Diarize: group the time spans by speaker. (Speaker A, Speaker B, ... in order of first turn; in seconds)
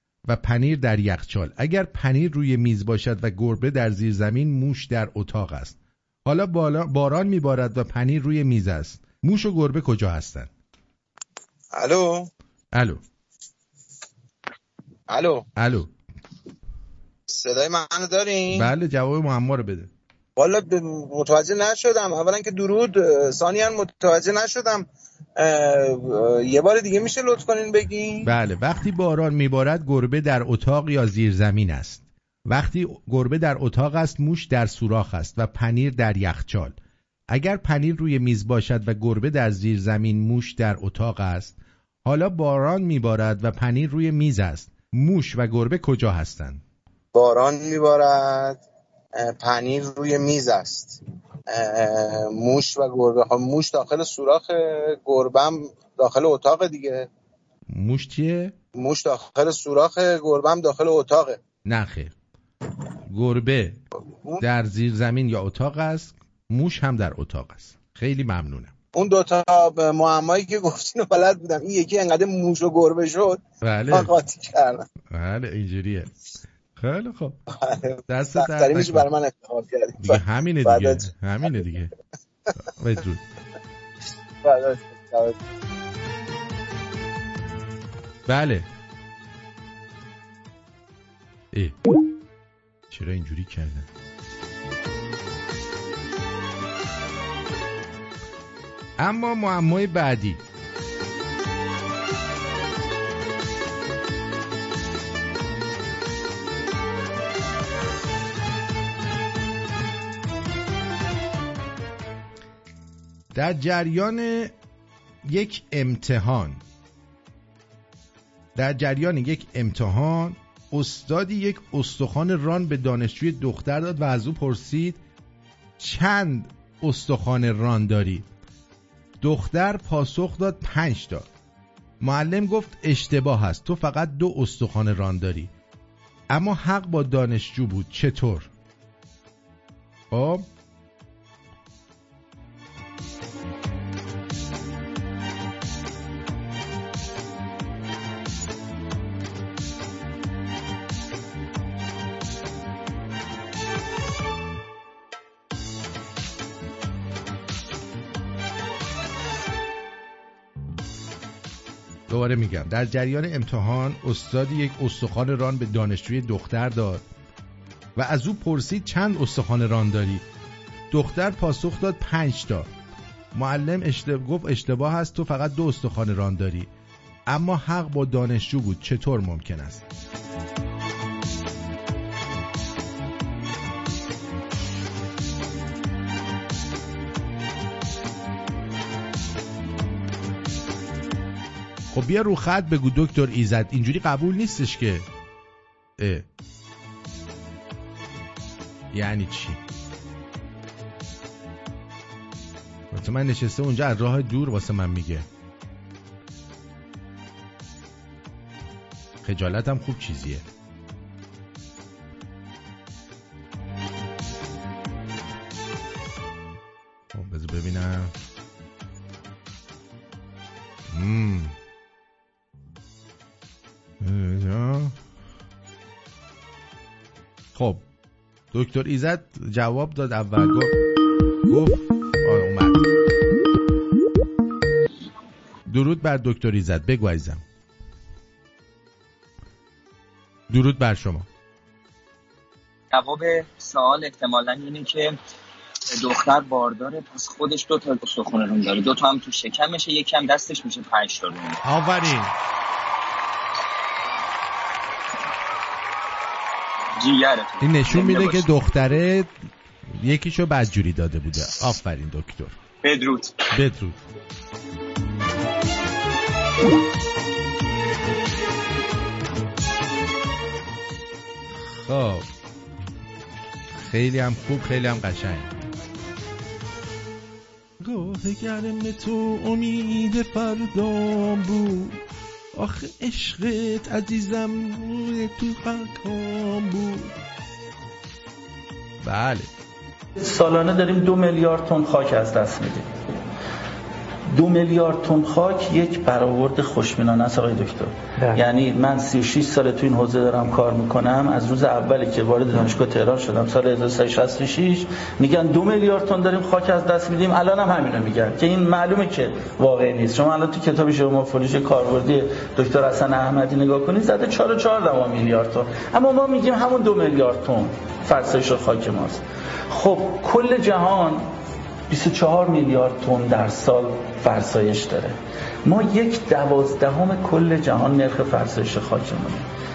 Speaker A: 0.3-10.5, 12.7-13.0, 15.6-15.9, 18.5-19.9, 28.2-36.8, 37.3-46.6, 57.7-58.5, 61.7-62.1, 63.1-63.8, 64.4-68.7, 73.6-74.2, 75.1-76.1, 76.8-77.4, 78.1-79.1, 80.0-81.9, 82.8-83.2, 88.3-88.7, 91.5-91.8, 92.9-93.9, 99.0-100.4, 113.3-114.5, 115.3-116.6, 118.6-125.0, 125.8-128.3, 129.2-131.3, 132.0-135.5, 136.3-138.5, 140.1-140.5, 162.1-167.0, 168.0-170.2, 170.9-172.7, 173.3-176.7, 177.3-179.8, 191.9-195.1, 196.0-196.3, 198.9-199.6, 202.9-205.3, 209.2-210.5, 217.1-218.1, 220.9-221.5, 224.0-225.0, 227.6-227.8, 228.5-230.7, 231.5-232.8, 235.7-237.4, 240.5-241.3, 251.6-252.3, 257.6-259.3, 259.9-262.6, 263.5-264.0, 271.9-272.3, 273.8-275.5, 277.8-282.0, 282.6-287.1, 289.0-289.5
Speaker B: 11.7-12.3, 15.1-15.4, 17.3-18.7, 20.4-24.9, 25.4-28.3, 47.1-48.6, 49.2-57.1, 58.8-61.4, 68.9-73.4, 73.9-74.8, 77.6-81.1, 84.4-85.4
Speaker C: 242.9-245.2, 245.9-251.6, 257.0-258.5, 262.8-263.3
Speaker D: 290.2-292.9, 294.3-321.3, 321.9-329.5